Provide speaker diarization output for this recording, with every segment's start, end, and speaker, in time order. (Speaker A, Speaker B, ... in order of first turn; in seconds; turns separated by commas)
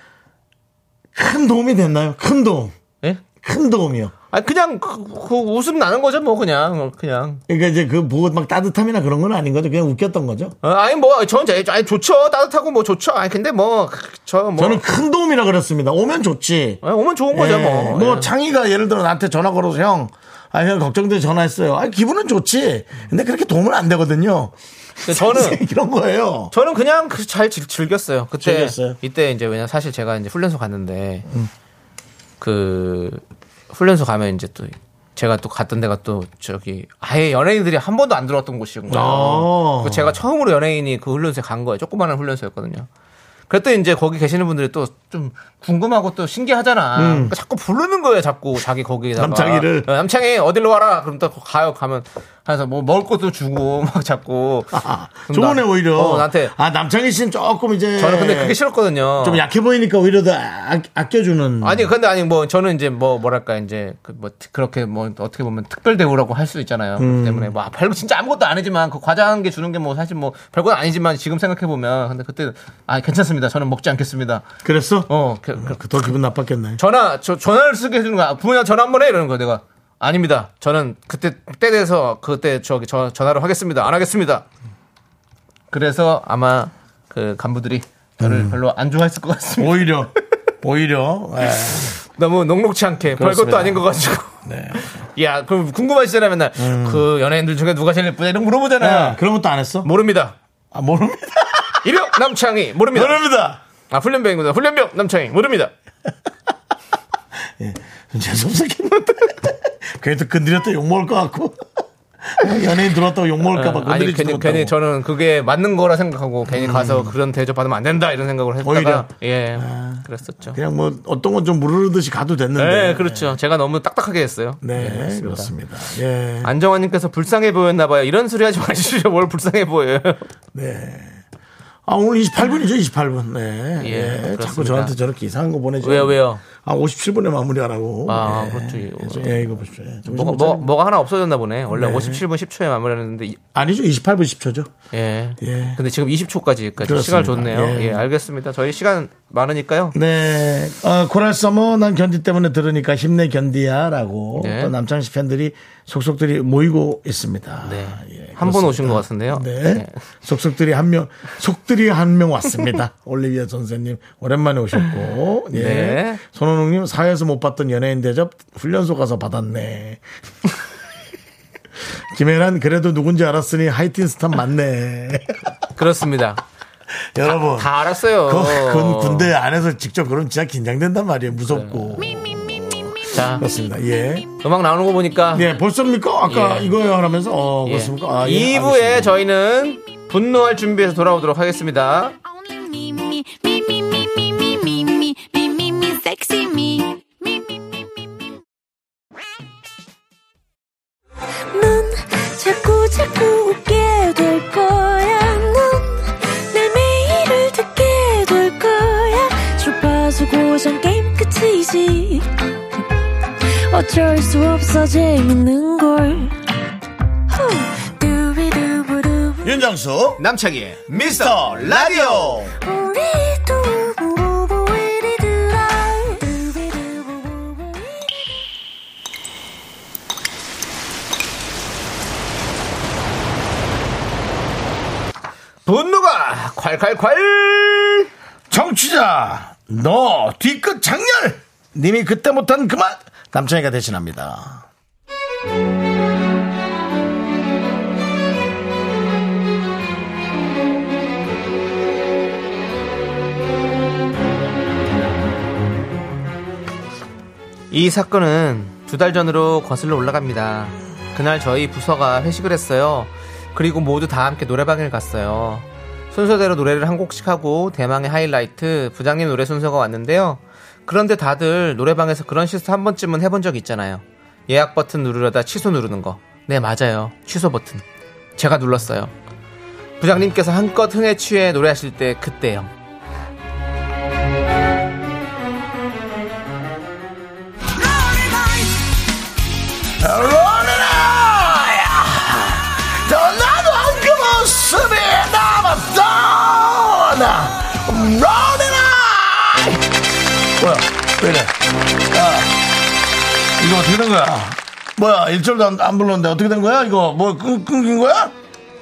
Speaker A: 1.1-2.7, Speaker A: 3.4-4.1, Speaker B: 4.3-7.4, Speaker A: 7.5-10.5, Speaker B: 10.6-14.8, Speaker A: 14.6-16.8, Speaker B: 16.8-18.3, Speaker A: 17.3-26.5, Speaker B: 25.0-25.6, Speaker B: 26.5-31.3, Speaker A: 28.4-29.0, Speaker B: 32.4-42.9, Speaker A: 38.9-40.2, Speaker B: 43.5-56.5, Speaker A: 47.0-47.3, Speaker A: 49.2-49.9, Speaker A: 54.7-58.6, Speaker B: 58.0-59.4, Speaker A: 59.2-61.9, Speaker B: 61.6-74.5, Speaker A: 67.0-67.5, Speaker A: 74.6-76.8, Speaker B: 75.1-76.1, Speaker B: 76.8-84.5, Speaker B: 85.7-90.0, Speaker A: 88.2-88.6, Speaker A: 89.6-92.0, Speaker B: 92.1-99.2, Speaker A: 93.2-93.8, Speaker A: 94.5-94.8, Speaker A: 96.6-97.1, Speaker A: 98.8-99.9, Speaker B: 99.8-100.4, Speaker A: 100.7-101.9, Speaker B: 101.8-103.2, Speaker A: 102.9-103.6, Speaker B: 103.9-105.7, Speaker A: 107.6-111.7, Speaker A: 112.2-114.7, Speaker B: 113.5-120.6, Speaker A: 116.5-117.1, Speaker A: 118.6-123.3, Speaker B: 122.6-125.5, Speaker A: 124.6-126.5, Speaker B: 126.4-130.3, Speaker A: 130.5-131.2, Speaker A: 131.9-140.7, Speaker B: 133.8-134.9, Speaker B: 135.8-136.4, Speaker B: 138.1-139.4, Speaker B: 140.1-143.4, Speaker A: 141.7-142.2, Speaker A: 143.6-144.7, Speaker B: 144.9-149.9, Speaker A: 145.4-145.8, Speaker A: 146.8-148.1, Speaker A: 149.9-170.0, Speaker B: 154.4-154.7, Speaker B: 157.6-160.0, Speaker B: 165.5-166.2, Speaker A: 172.1-175.4, Speaker B: 175.7-176.4, Speaker A: 177.2-184.3, Speaker B: 177.3-179.3, Speaker B: 181.5-181.8, Speaker B: 183.1-183.4, Speaker B: 184.4-185.5, Speaker A: 185.3-189.1, Speaker B: 186.3-186.7, Speaker B: 187.7-192.2, Speaker C: 192.3-198.3, Speaker C: 201.5-212.4, Speaker C: 213.7-216.4, Speaker C: 217.3-219.5, Speaker A: 219.4-220.2, Speaker B: 220.2-222.5, Speaker A: 220.9-222.5, Speaker C: 222.6-228.4, Speaker B: 235.7-238.1, Speaker A: 238.5-244.7, Speaker B: 257.7-277.8, Speaker B: 278.4-279.1, Speaker B: 280.0-282.7, Speaker A: 290.0-300.0, Speaker A: 300.6-302.7, Speaker A: 303.6-308.3